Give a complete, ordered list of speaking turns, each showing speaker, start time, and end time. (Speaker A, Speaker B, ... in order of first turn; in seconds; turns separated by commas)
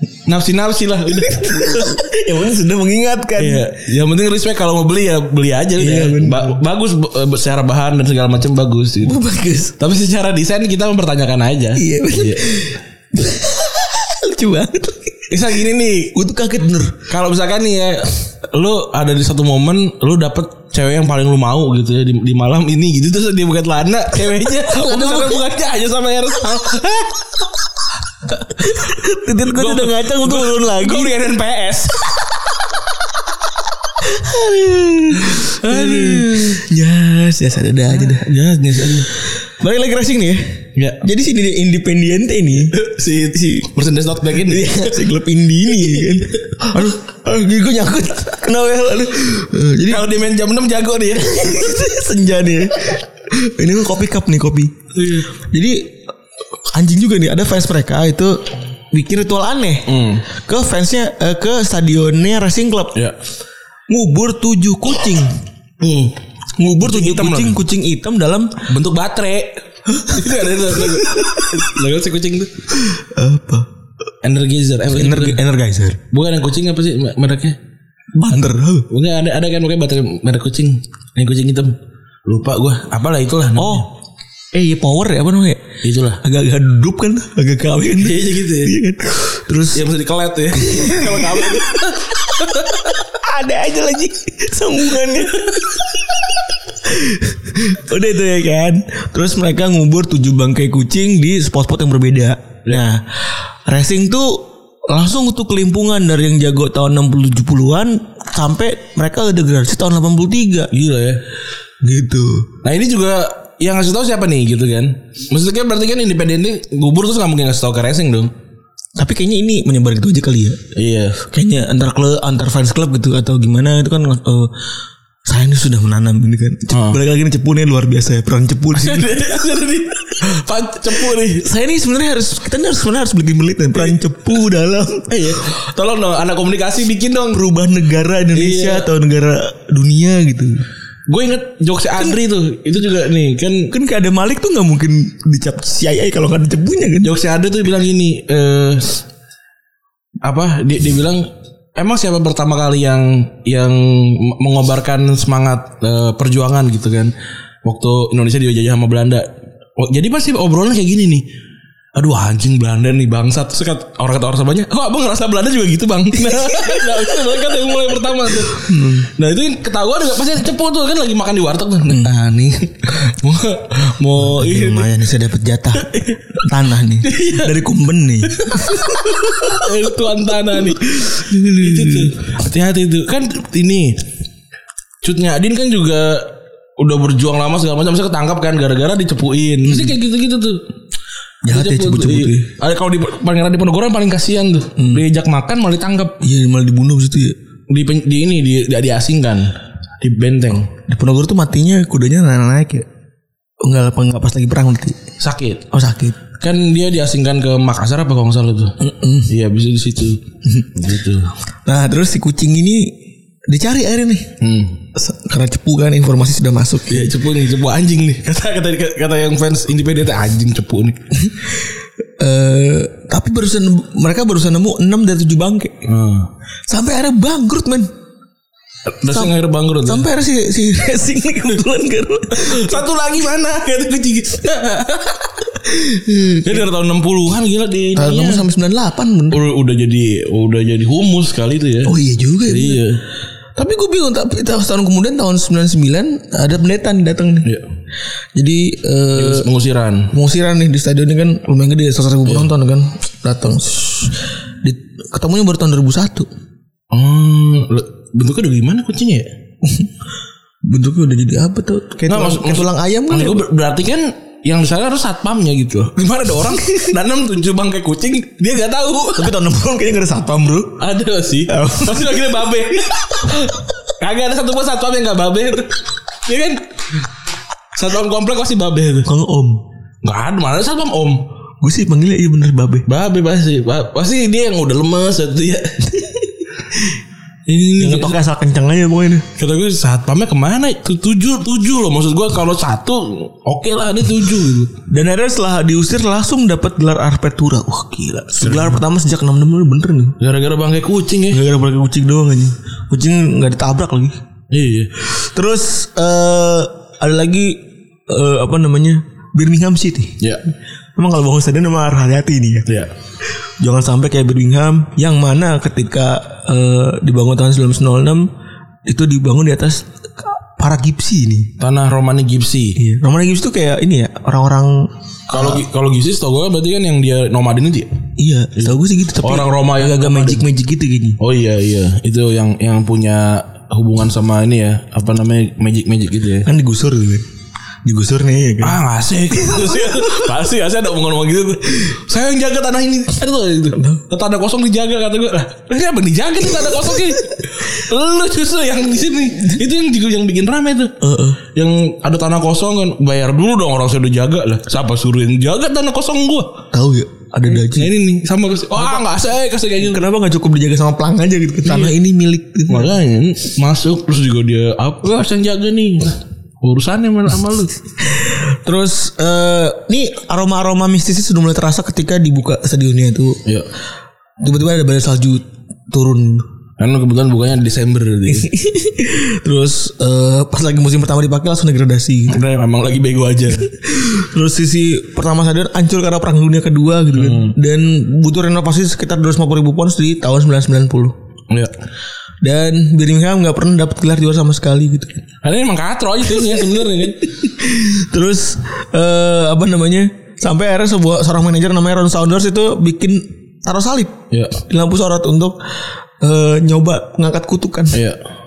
Speaker A: 0.3-1.9, Speaker B: 1.3-3.7, Speaker A: 3.4-9.2, Speaker B: 5.8-6.6, Speaker B: 9.0-9.8, Speaker A: 9.8-12.6, Speaker B: 11.8-15.4, Speaker A: 15.3-16.1, Speaker B: 16.1-17.0, Speaker A: 17.1-27.3, Speaker B: 24.6-25.5, Speaker A: 28.4-28.9, Speaker B: 28.6-31.2, Speaker A: 29.5-32.1, Speaker B: 34.0-38.3, Speaker A: 35.2-36.6, Speaker A: 38.0-39.1, Speaker B: 39.1-42.8, Speaker A: 40.8-41.0, Speaker A: 42.6-45.0, Speaker B: 43.3-43.7, Speaker B: 44.3-50.1, Speaker A: 49.9-51.8, Speaker B: 51.3-54.7, Speaker A: 54.9-55.3, Speaker B: 55.3-56.0, Speaker B: 56.7-63.0, Speaker A: 59.9-60.2, Speaker B: 63.9-65.4, Speaker A: 65.8-66.1, Speaker B: 66.6-68.6, Speaker A: 66.8-67.6, Speaker A: 68.6-72.6, Speaker B: 69.9-71.6, Speaker B: 72.7-73.7, Speaker A: 74.2-75.4, Speaker B: 74.9-76.0, Speaker A: 76.1-77.6, Speaker B: 78.2-78.9, Speaker A: 78.9-83.9, Speaker B: 83.5-83.9, Speaker B: 84.5-85.6, Speaker A: 85.8-86.2, Speaker B: 86.2-89.8, Speaker A: 87.9-88.8, Speaker A: 89.7-93.0, Speaker B: 90.5-91.8, Speaker B: 93.0-110.7, Speaker A: 110.7-111.2, Speaker B: 111.8-112.5, Speaker A: 112.6-118.3, Speaker B: 119.0-120.6, Speaker A: 120.7-121.2, Speaker B: 121.2-124.5, Speaker B: 125.2-129.2, Speaker A: 126.7-127.0, Speaker A: 128.7-131.5, Speaker B: 131.1-135.2, Speaker A: 135.1-137.4, Speaker B: 137.3-140.6, Speaker A: 138.3-138.9, Speaker A: 141.1-143.7, Speaker B: 143.7-147.2, Speaker A: 147.0-149.0, Speaker A: 150.2-157.1, Speaker A: 157.6-159.3, Speaker A: 159.8-161.2, Speaker A: 161.9-174.9, Speaker B: 166.5-166.7, Speaker B: 168.4-169.1, Speaker B: 171.9-172.2, Speaker B: 174.2-179.7, Speaker A: 175.9-176.2, Speaker A: 177.0-177.6, Speaker A: 178.2-184.0, Speaker B: 180.5-182.1, Speaker A: 185.0-190.6, Speaker B: 189.6-189.9, Speaker B: 191.4-192.5, Speaker A: 191.5-196.2, Speaker B: 194.8-195.0, Speaker B: 196.2-197.3, Speaker A: 197.7-200.7, Speaker B: 200.8-202.9, Speaker B: 203.6-205.0, Speaker A: 205.2-205.6, Speaker B: 205.7-206.2, Speaker A: 206.4-211.3, Speaker B: 208.8-209.3, Speaker B: 211.6-213.0, Speaker B: 213.5-214.3, Speaker A: 214.4-214.8, Speaker B: 214.9-217.1, Speaker A: 216.9-221.1, Speaker B: 221.2-221.6, Speaker B: 222.2-225.8, Speaker A: 225.8-226.3, Speaker B: 226.7-227.9, Speaker A: 228.9-230.0, Speaker B: 229.1-232.8, Speaker A: 232.3-235.5, Speaker B: 235.6-236.7, Speaker A: 236.4-238.4, Speaker B: 237.9-239.4, Speaker A: 239.3-243.0, Speaker B: 241.8-242.9, Speaker B: 243.6-247.5, Speaker B: 248.3-249.5, Speaker A: 249.1-250.1, Speaker B: 250.1-256.3, Speaker A: 256.9-259.3, Speaker B: 259.6-259.9, Speaker B: 260.6-263.4, Speaker A: 262.1-269.3, Speaker B: 269.1-270.8, Speaker A: 270.8-277.0, Speaker B: 271.5-272.6, Speaker A: 277.7-279.1, Speaker B: 279.1-279.6, Speaker A: 280.0-281.2, Speaker B: 281.6-282.9, Speaker A: 282.9-285.9, Speaker A: 287.4-288.2, Speaker B: 287.8-289.3, Speaker A: 289.4-294.7, Speaker B: 294.9-300.1, Speaker A: 298.4-298.8, Speaker A: 300.2-301.4, Speaker B: 301.3-304.1, Speaker A: 304.5-304.9, Speaker B: 305.0-310.2, Speaker B: 310.9-312.6, Speaker B: 313.6-318.3, Speaker B: 318.8-321.5, Speaker A: 321.6-322.8, Speaker B: 322.8-325.6, Speaker A: 325.3-327.9, Speaker B: 328.2-331.2, Speaker A: 329.2-330.4, Speaker A: 331.2-336.5, Speaker B: 336.4-337.2, Speaker B: 337.8-338.8, Speaker A: 338.6-350.9, Speaker B: 339.3-340.2, Speaker B: 343.8-344.0, Speaker B: 351.0-351.4, Speaker A: 351.5-356.6, Speaker B: 356.7-357.9, Speaker A: 357.4-360.0, Speaker B: 359.8-362.9, Speaker A: 361.6-361.9, Speaker A: 362.7-367.8, Speaker B: 368.0-373.4, Speaker B: 374.4-376.4, Speaker A: 376.8-378.5, Speaker B: 378.3-382.4, Speaker A: 382.3-383.7, Speaker B: 383.6-391.1, Speaker A: 387.1-387.5, Speaker B: 392.4-395.2, Speaker A: 395.4-397.3, Speaker B: 396.5-408.0, Speaker A: 404.3-404.6, Speaker A: 407.9-408.2